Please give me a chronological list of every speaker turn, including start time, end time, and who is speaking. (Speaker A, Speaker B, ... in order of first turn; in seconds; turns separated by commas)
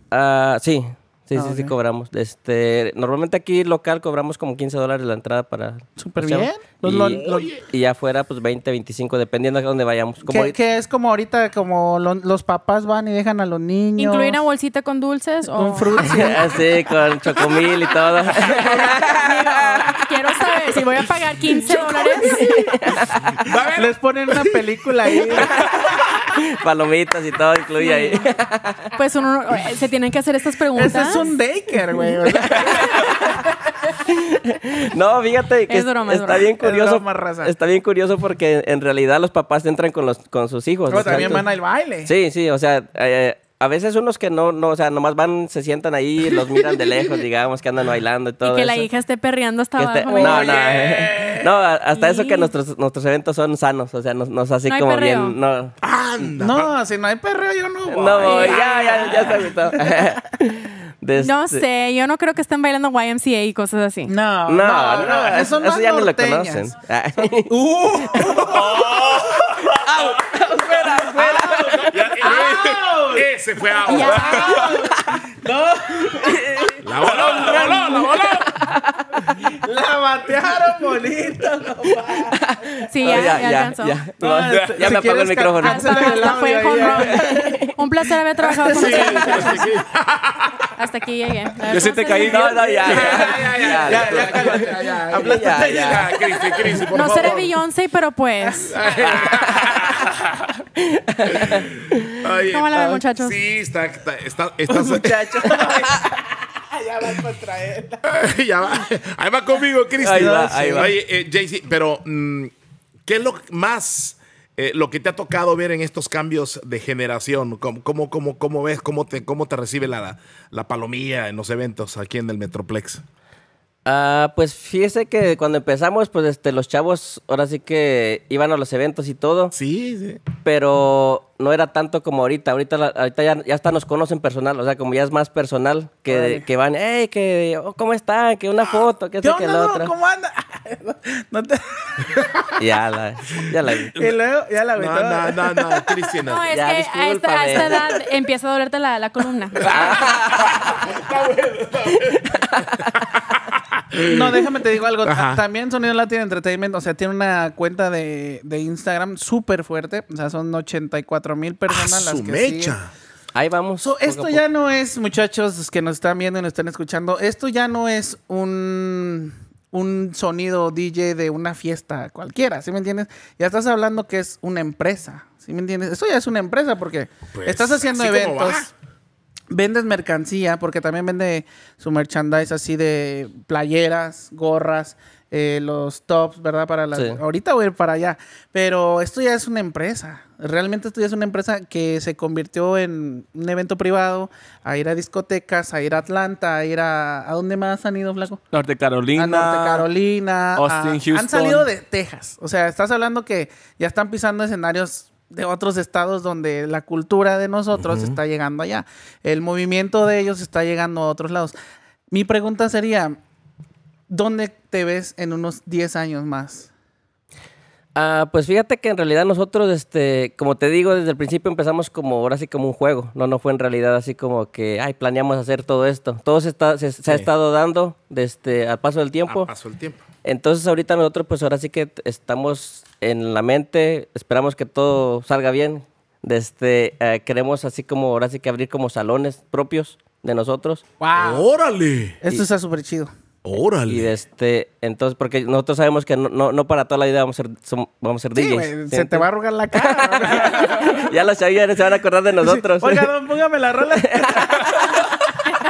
Speaker A: 0.1-10.5, Speaker B: 1.3-1.7, Speaker B: 6.0-7.5, Speaker C: 7.0-7.6, Speaker B: 10.2-14.4, Speaker D: 14.0-16.3, Speaker B: 15.5-16.6, Speaker A: 16.0-20.3, Speaker D: 19.0-22.5, Speaker A: 22.0-23.5, Speaker C: 23.3-24.5, Speaker B: 23.7-26.3, Speaker A: 26.1-28.9, Speaker D: 27.8-28.3, Speaker D: 28.9-31.2, Speaker B: 30.7-33.5, Speaker A: 32.2-41.5, Speaker D: 35.7-36.5, Speaker B: 36.6-37.5, Speaker B: 40.9-42.1, Speaker C: 40.9-41.3, Speaker A: 42.0-48.9, Speaker D: 48.4-50.7, Speaker A: 49.8-55.7, Speaker B: 50.1-51.5, Speaker D: 51.9-52.5, Speaker D: 54.7-55.4, Speaker C: 55.8-56.7, Speaker B: 56.4-60.1, Speaker A: 57.9-61.6, Speaker D: 58.2-58.9, Speaker D: 61.2-64.1, Speaker B: 64.0-73.3, Speaker A: 64.5-67.5, Speaker A: 68.1-68.4, Speaker E: 68.4-69.8, Speaker A: 69.7-71.9, Speaker C: 71.6-74.6, Speaker E: 71.9-72.8, Speaker D: 73.8-74.6, Speaker B: 73.9-78.3, Speaker E: 74.3-74.9, Speaker A: 76.1-76.8, Speaker C: 76.8-78.5, Speaker E: 77.0-77.7, Speaker A: 78.4-79.3, Speaker B: 79.4-83.5, Speaker A: 82.1-87.7, Speaker D: 82.9-84.0, Speaker B: 84.2-87.7, Speaker E: 84.5-84.9, Speaker D: 85.6-89.7, Speaker B: 88.4-89.7, Speaker C: 88.7-90.7, Speaker D: 90.7-92.7, Speaker E: 91.7-93.0, Speaker A: 92.2-96.8, Speaker B: 92.8-96.3, Speaker C: 92.8-97.5, Speaker D: 96.9-98.7, Speaker B: 98.4-99.7, Speaker C: 98.7-100.1, Speaker A: 99.0-100.0, Speaker A: 100.8-102.2, Speaker C: 101.3-101.7, Speaker C: 102.2-105.7, Speaker D: 102.5-103.4, Speaker B: 104.7-108.0, Speaker C: 108.0-112.5, Speaker A: 110.0-110.9, Speaker B: 110.0-110.9, Speaker C: 113.0-123.0, Speaker A: 123.8-129.5, Speaker C: 129.5-130.2, Speaker A: 130.4-139.9, Speaker B: 136.1-136.5, Speaker B: 139.2-142.5, Speaker A: 142.6-144.0, Speaker B: 143.9-145.9, Speaker C: 144.7-146.5, Speaker D: 146.2-149.9, Speaker A: 146.5-147.8, Speaker C: 149.6-154.4, Speaker A: 149.6-150.6, Speaker A: 152.6-152.9, Speaker B: 154.0-162.8, Speaker C: 155.0-155.4, Speaker C: 161.7-162.9, Speaker A: 163.3-164.4, Speaker B: 163.8-178.7, Speaker C: 177.3-178.7, Speaker B: 179.5-198.4, Speaker A: 186.9-187.2, Speaker E: 198.5-199.8, Speaker B: 199.1-211.5, Speaker E: 200.6-201.7, Speaker C: 207.8-208.2, Speaker B: 212.1-213.2, Speaker B: 214.1-216.7, Speaker A: 217.9-229.5, Speaker C: 229.3-230.0, Speaker A: 230.2-240.8, Speaker B: 241.0-241.5, Speaker C: 241.2-242.2, Speaker B: 242.2-243.1, Speaker C: 243.4-244.1, Speaker A: 243.9-253.1, Speaker B: 248.3-251.1, Speaker B: 252.4-255.2, Speaker A: 254.0-254.9